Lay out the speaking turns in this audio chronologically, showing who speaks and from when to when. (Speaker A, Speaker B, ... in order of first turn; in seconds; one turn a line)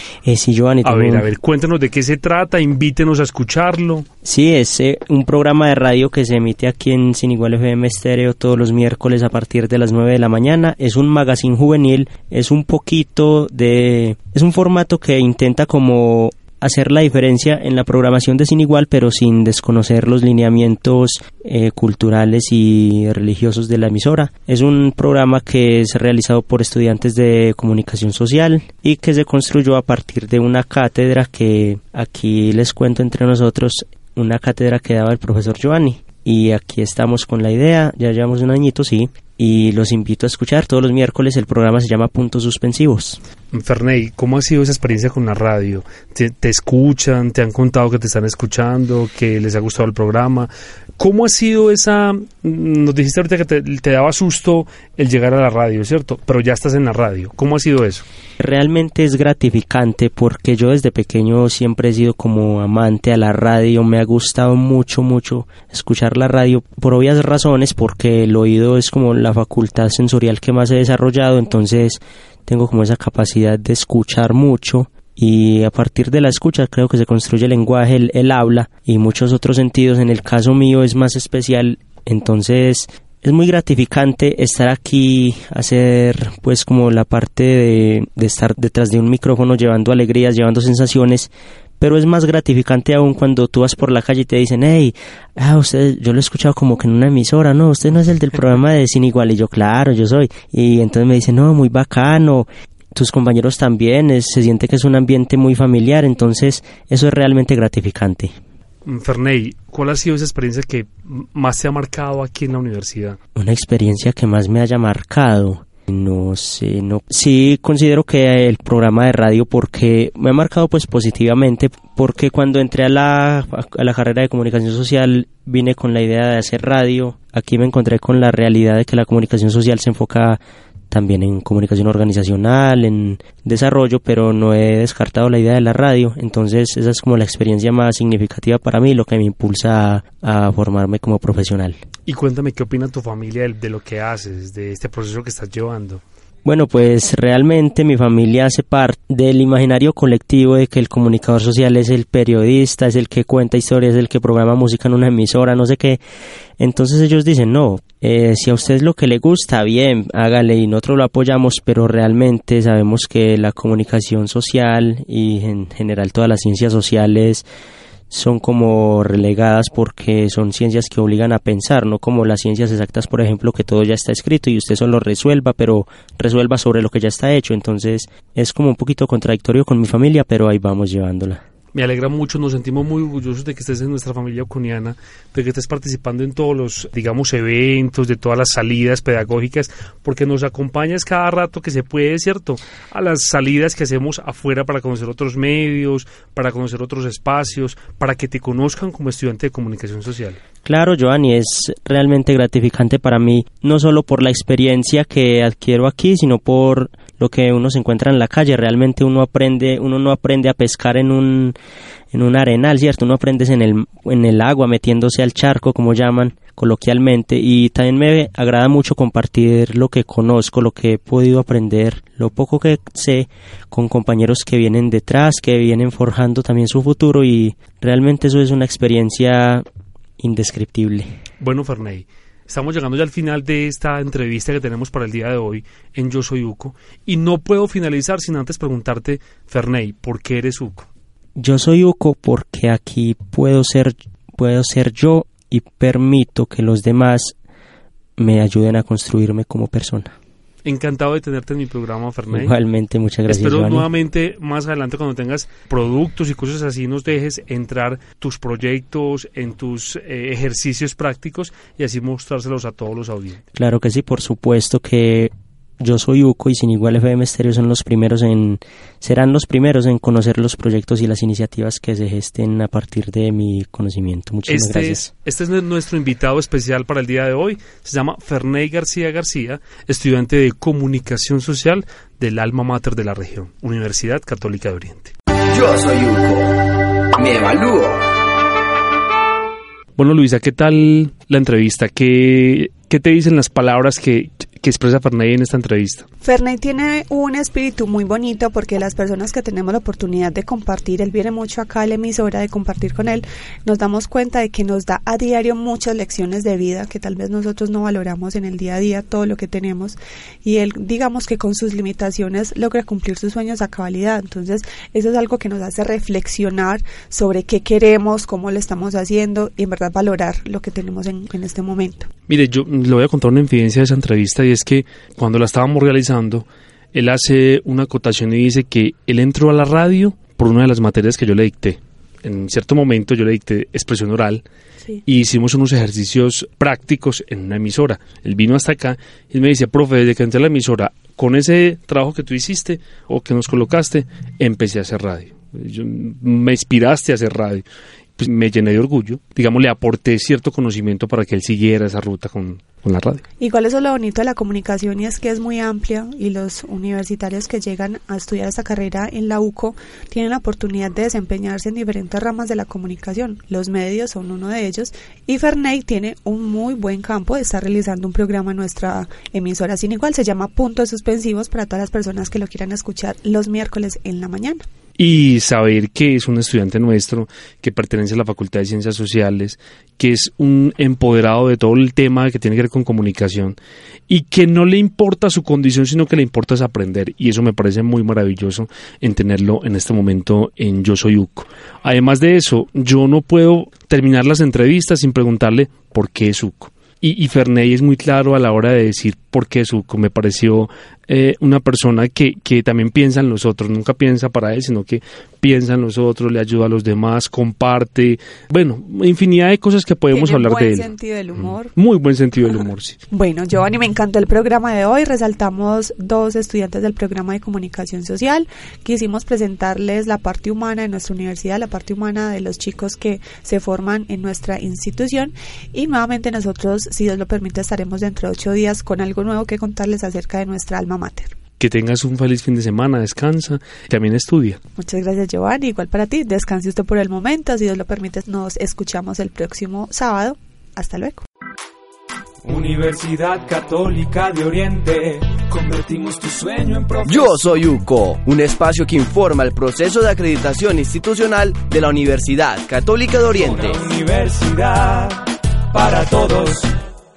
Speaker A: 0.2-1.3
Speaker B: 0.8-4.1
Speaker A: 4.2-43.2
Speaker B: 43.5-58.1
Speaker A: 58.4-108.3
Speaker B: 108.9-113.2
Speaker A: 113.4-130.4
Speaker A: 130.9-141.8
Speaker B: 142.1-146.0
Speaker A: 146.4-156.0
Speaker A: 156.6-167.4
Speaker A: 168.1-181.4
Speaker B: 181.7-200.4
Speaker A: 200.6-211.6
Speaker A: 212.1-229.7
Speaker A: 230.2-231.2
Speaker B: 231.4-240.9
Speaker A: 241.4-247.3
Speaker A: 248.2-250.2
Speaker B: 250.7-252.5
Speaker A: 252.3-253.9
Speaker B: 253.3-263.4
Speaker A: 263.6-275.1
Speaker B: 274.5-285.1
Speaker C: 285.5-288.1
Speaker B: 290.0-296.1
Speaker D: 296.2-322.1
Speaker B: 322.3-334.4
Speaker B: 335.1-347.6
Speaker B: 348.2-353.2
Speaker D: 353.4-374.6
Speaker B: 375.0-383.6
Speaker B: 384.1-410.9
Speaker D: 410.1-411.7
Speaker B: 411.7-413.0
Speaker D: 413.1-431.4
Speaker B: 431.6-434.6
Speaker D: 434.8-441.2
Speaker E: 442.4-447.4
Speaker C: 447.1-453.8
Speaker E: 453.3-456.7